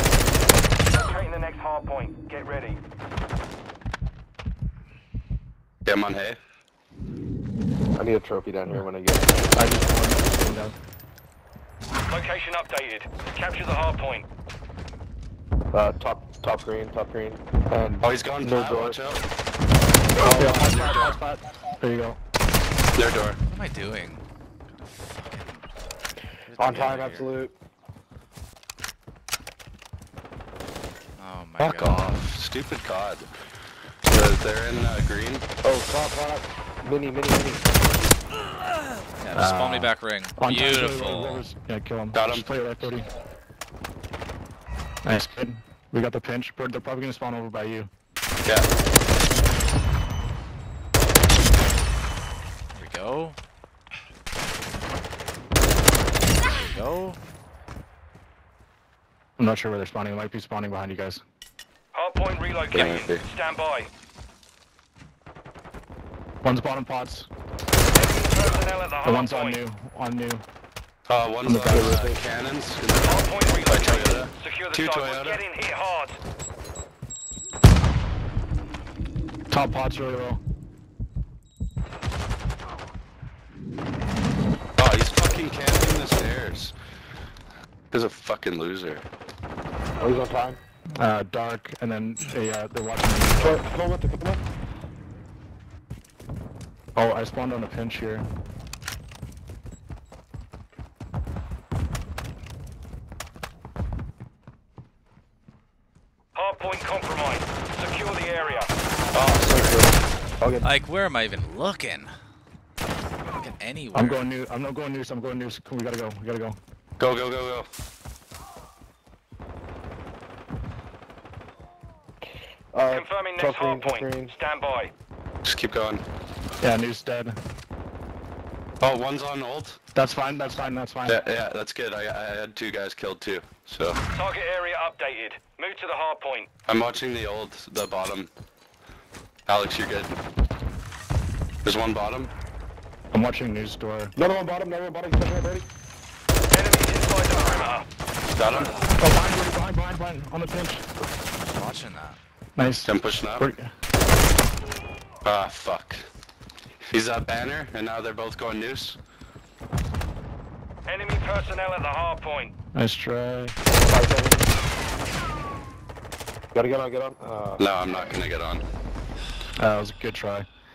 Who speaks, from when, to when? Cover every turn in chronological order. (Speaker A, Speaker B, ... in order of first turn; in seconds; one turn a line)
Speaker A: 0.9-2.8
Speaker B: 5.9-6.4
Speaker C: 8.0-9.5
Speaker D: 9.6-10.8
Speaker A: 12.1-14.2
Speaker C: 15.7-19.0
Speaker B: 18.0-19.2
Speaker C: 20.2-20.8
Speaker D: 20.2-22.2
Speaker B: 20.5-21.2
Speaker B: 23.0-23.4
Speaker E: 23.5-25.6
Speaker E: 26.4-27.3
Speaker C: 26.6-27.5
Speaker E: 31.2-32.2
Speaker B: 31.6-33.3
Speaker B: 34.1-35.5
Speaker C: 35.6-37.7
Speaker E: 39.2-41.5
Speaker D: 39.3-43.0
Speaker B: 42.1-42.5
Speaker D: 45.0-47.9
Speaker E: 52.8-53.4
Speaker E: 56.5-57.2
Speaker D: 59.4-61.2
Speaker A: 61.9-63.9
Speaker B: 62.7-63.2
Speaker D: 66.4-67.3
Speaker A: 67.9-69.6
Speaker D: 69.0-70.4
Speaker B: 71.1-75.4
Speaker D: 71.5-72.0
Speaker C: 71.7-72.2
Speaker A: 73.0-76.2
Speaker D: 79.5-80.4
Speaker B: 84.8-86.7
Speaker B: 87.9-89.0
Speaker C: 90.0-90.6
Speaker D: 91.0-93.7
Speaker C: 93.4-94.4
Speaker D: 97.0-98.3
Speaker A: 106.3-108.7
Speaker B: 109.1-109.9
Speaker C: 109.4-110.7
Speaker E: 110.6-112.1
Speaker E: 113.3-114.2
Speaker D: 113.9-116.6
Speaker B: 117.0-117.7
Speaker C: 122.7-124.3
Speaker A: 122.9-124.9
Speaker B: 125.4-126.0
Speaker D: 126.6-127.4
Speaker B: 128.8-129.8
Speaker D: 129.9-131.2
Speaker B: 131.1-134.0
Speaker A: 134.1-136.5
Speaker B: 136.7-138.3
Speaker B: 139.5-140.2
Speaker B: 141.6-142.3
Speaker D: 143.1-144.1
Speaker C: 144.2-145.7
Speaker A: 146.5-147.9
Speaker B: 148.4-148.7
Speaker D: 149.0-150.9
Speaker E: 151.5-152.2
Speaker D: 152.6-153.7
Speaker B: 152.8-153.5
Speaker B: 155.2-156.1
Speaker B: 156.9-159.0
Speaker A: 160.9-162.5
Speaker D: 162.7-163.6
Speaker C: 163.7-164.5
Speaker C: 166.5-167.7
Speaker B: 167.6-168.6
Speaker D: 169.6-170.5